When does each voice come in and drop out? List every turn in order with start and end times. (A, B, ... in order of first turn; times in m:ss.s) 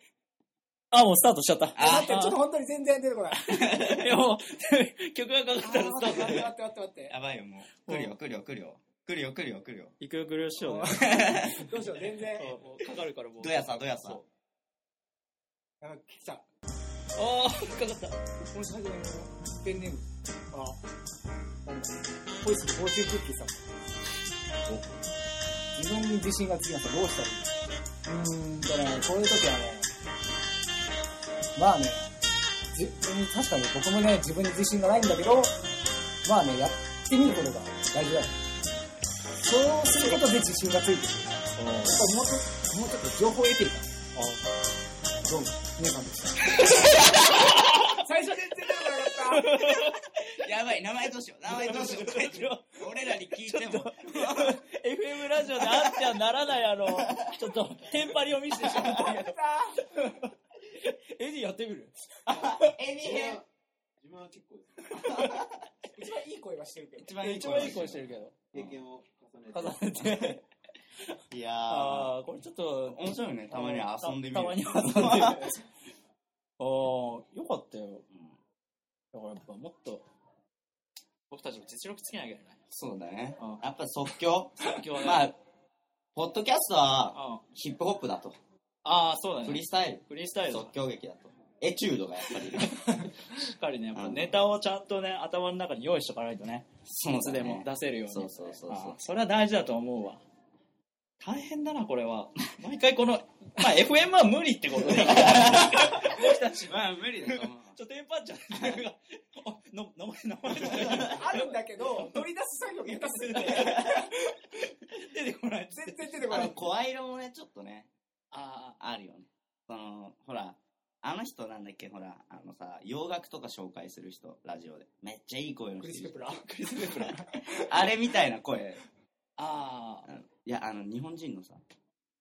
0:00.9-0:02.4 A
0:01.8-0:02.2 B
0:01.8-0:03.4 C
0:03.4-0:06.5 A
0:05.6-0:07.2 C
0:07.1-0:10.0 B
0:07.9-0:08.2 A
0:10.0-0:11.7 A
0:10.6-0:12.6 C
0:11.1-0:11.5 B
0:12.4-0:14.3 A
0:13.4-0:14.2 B
0:15.8-0:16.4 C
0:17.2-0:18.2 A
0:18.5-0:20.8 C
0:21.6-0:23.7 C
0:24.7-0:25.0 D
0:25.8-0:27.5 C
0:28.0-0:29.9 C
0:31.6-0:32.1 C
0:32.7-0:35.6 C
0:36.2-0:38.4 C
0:39.4-0:43.9 C
0:41.6-0:42.0 A
0:44.2-0:44.4 A
0:45.3-0:49.5 C
0:46.6-0:48.0 A
0:49.2-0:50.2 A
0:50.3-0:54.6 B
0:51.5-1:02.8 A
0:55.4-0:56.2 B
0:56.8-0:57.5 B
0:58.7-0:59.9 C
1:02.3-1:03.4 B
1:03.0-1:03.5 D
1:04.0-1:05.2 D
1:04.9-1:05.5 B
1:05.9-1:07.2 C
1:07.0-1:08.8 B
1:07.2-1:08.4 A
1:08.5-1:10.4 D
1:09.5-1:10.4 A
1:11.3-1:12.2 B
1:11.7-1:15.6 A
1:12.9-1:15.6 B
1:16.6-1:18.1 A
1:19.1-1:20.0 A
1:21.3-1:22.6 A
1:22.7-1:25.4 B
1:24.6-1:25.3 A
1:26.2-1:28.4 B
1:27.1-1:27.4 A
1:28.8-1:30.7 A
1:29.4-1:32.8 B
1:33.3-1:40.2 A
1:34.0-1:34.4 B
1:36.9-1:39.0 B
1:41.2-1:52.2 A
1:44.9-1:47.8 B
1:50.5-1:51.2 B
1:51.1-1:54.1 C
1:53.0-1:54.2 A
1:54.9-1:56.5 A
1:55.7-1:56.6 C
1:56.3-1:57.9 B
1:58.3-1:58.8 A
1:58.8-2:06.3 B
2:05.8-2:07.8 C
2:06.4-2:07.2 A
2:07.4-2:08.8 B
2:09.4-2:10.1 A
2:10.1-2:11.6 B